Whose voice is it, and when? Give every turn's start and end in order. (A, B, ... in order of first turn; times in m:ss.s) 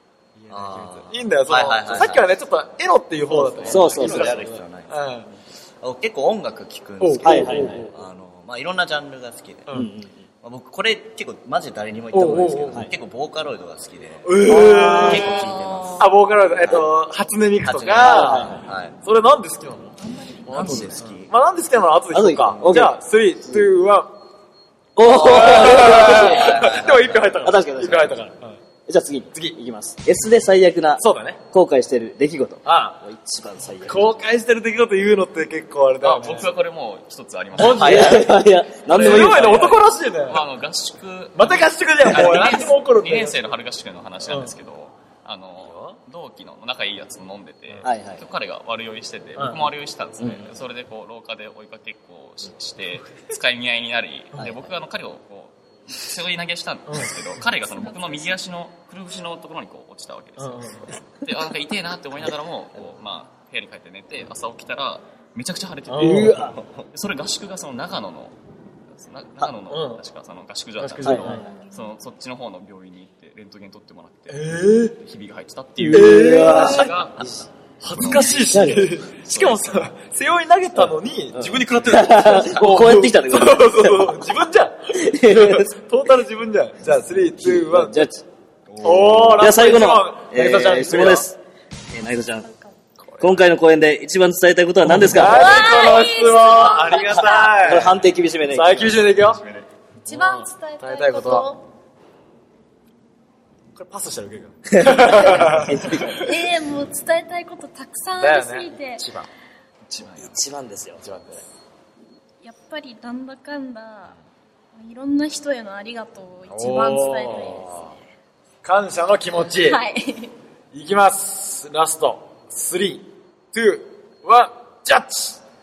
0:00.3-0:05.3 A
0:00.5-0:02.2 B
0:03.3-0:04.9 B
0:03.6-0:04.5 C
0:05.8-0:09.7 B
0:07.0-0:07.9 A
0:07.2-0:07.9 C
0:09.7-0:10.3 C
0:10.4-0:16.9 B
0:12.1-0:12.9 A
0:14.2-0:15.4 A
0:14.6-0:16.0 D
0:16.0-0:24.2 A
0:17.6-0:18.9 B
0:18.0-0:18.6 C
0:20.4-0:21.3 B
0:22.1-0:23.6 C
0:25.0-0:28.3 C
0:25.0-0:28.6 A
0:26.3-0:27.3 B
0:28.8-0:34.2 C
0:31.0-0:31.4 A
0:32.6-0:33.0 A
0:33.8-0:36.5 A
0:36.0-0:38.2 E
0:37.5-0:40.4 A
0:37.6-0:39.8 C
0:39.0-1:08.3 E
0:41.3-0:43.4 A
0:44.2-0:44.5 A
0:45.6-0:46.0 A
0:47.8-0:48.2 C
0:49.4-0:49.7 A
0:50.2-0:50.5 C
0:54.4-0:54.7 C
0:56.9-0:57.2 A
0:57.8-0:58.4 D
1:00.4-1:01.0 A
1:05.9-1:06.5 A
1:06.0-1:06.6 C
1:08.9-1:17.1 E
1:09.7-1:10.0 A
1:10.8-1:11.4 A
1:11.0-1:11.5 C
1:11.4-1:11.9 D
1:14.3-1:15.0 A
1:15.8-1:28.1 A
1:15.9-1:17.4 C
1:17.9-1:18.4 E
1:18.4-1:18.9 C
1:19.2-1:19.9 E
1:21.3-1:24.2 C
1:24.9-1:25.8 C
1:27.4-1:28.2 C
1:28.7-1:29.4 E
1:28.8-1:31.3 A
1:28.8-1:31.4 C
1:31.9-1:32.5 C
1:32.4-1:32.8 D
1:33.0-1:33.4 A
1:33.2-1:35.7 C
1:34.8-1:39.4 A
1:35.2-1:37.6 D
1:37.2-1:39.1 C
1:38.8-1:39.6 E
1:40.0-1:41.6 D
1:40.1-1:41.5 A
1:43.7-1:46.4 A
1:44.7-1:46.2 C
1:46.1-1:49.1 D
1:48.2-1:49.3 A
1:49.9-1:50.3 A
1:50.0-1:51.0 C
1:51.0-1:51.4 A
1:52.4-1:54.2 D
1:54.7-1:58.0 D
1:56.5-1:58.0 A
1:58.6-1:59.8 A
1:59.6-2:00.3 D
2:00.7-2:05.4 A